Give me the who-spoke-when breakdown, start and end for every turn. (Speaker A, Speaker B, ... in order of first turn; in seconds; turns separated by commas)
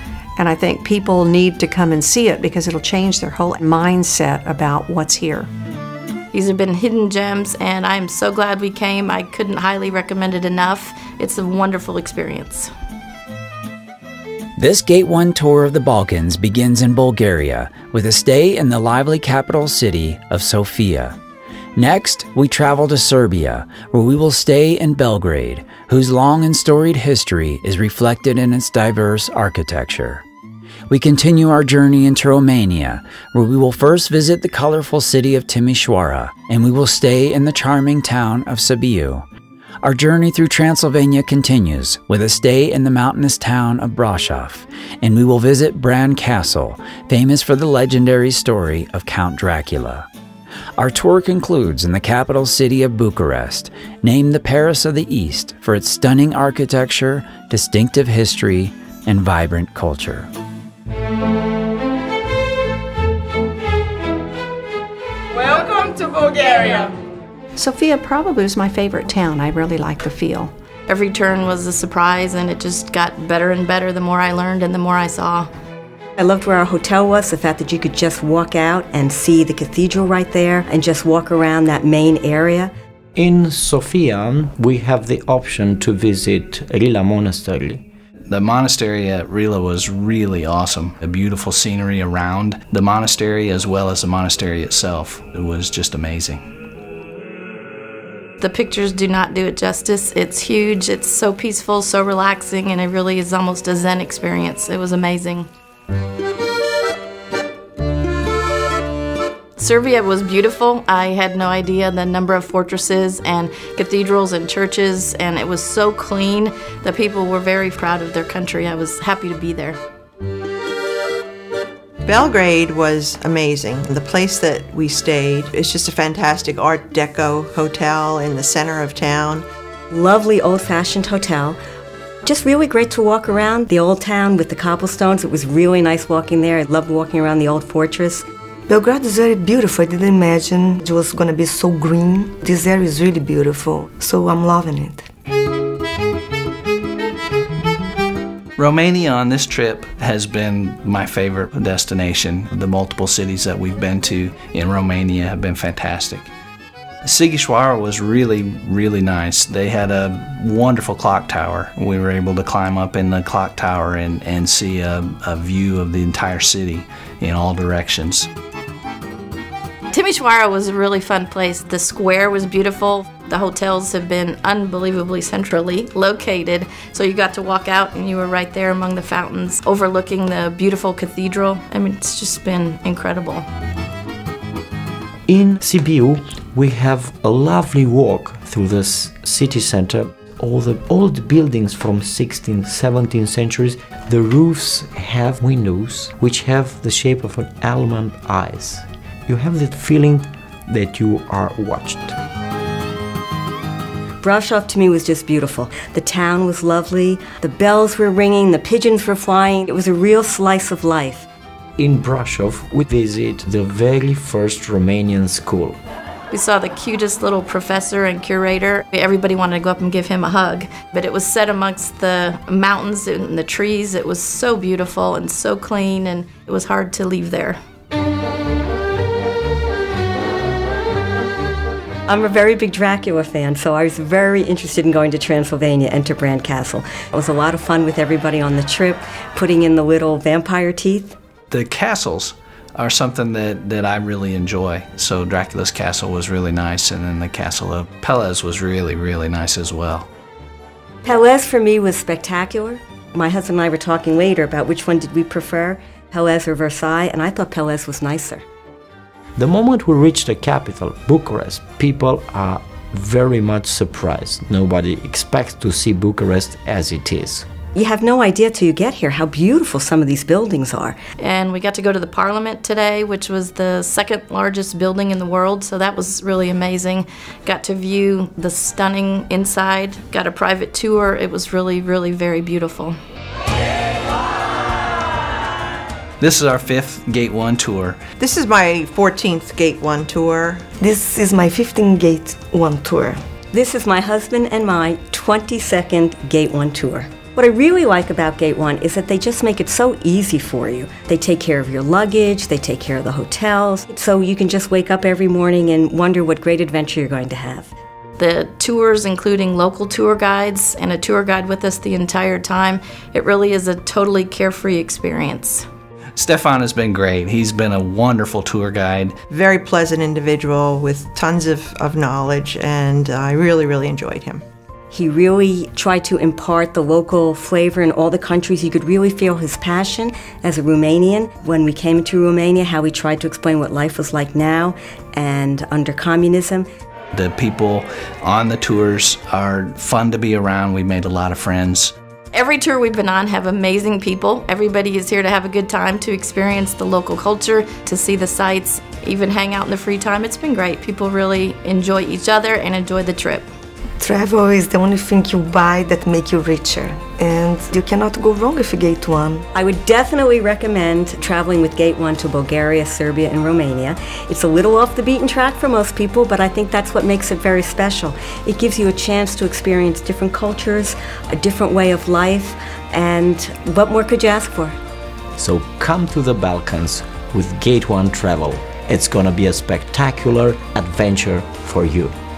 Speaker A: 0.4-5.5, Speaker B: 6.3-12.7, Speaker C: 14.6-21.2, Speaker C: 21.8-30.2, Speaker C: 30.9-39.2, Speaker C: 39.8-50.1, Speaker C: 50.8-60.3, Speaker A: 65.4-66.9, Speaker A: 67.5-70.5, Speaker B: 70.9-75.5, Speaker D: 76.2-82.7, Speaker E: 83.2-87.8, Speaker F: 88.3-96.4, Speaker B: 98.4-105.5, Speaker B: 109.6-119.8, Speaker G: 122.0-129.5, Speaker D: 129.9-131.6, Speaker D: 132.2-138.2, Speaker H: 138.7-145.1, Speaker F: 148.6-156.3, Speaker F: 157.0-168.3, Speaker B: 169.9-183.5, Speaker E: 185.3-202.2, Speaker D: 204.2-211.3, Speaker E: 211.8-215.8, Speaker B: 216.3-227.6, Speaker D: 232.1-241.2, Speaker F: 241.5-250.1, Speaker D: 251.0-258.4, Speaker E: 259.4-267.5, Speaker D: 267.8-271.0, Speaker B: 271.2-283.0, Speaker F: 286.2-288.0, Speaker G: 288.2-290.6, Speaker H: 290.8-293.2, Speaker D: 293.5-307.7, Speaker B: 308.2-315.6, Speaker F: 316.2-319.2, Speaker G: 319.3-324.4, Speaker D: 324.9-336.7, Speaker F: 337.1-341.9, Speaker B: 342.3-353.5, Speaker H: 354.0-359.4, Speaker D: 359.5-374.8, Speaker E: 375.4-382.1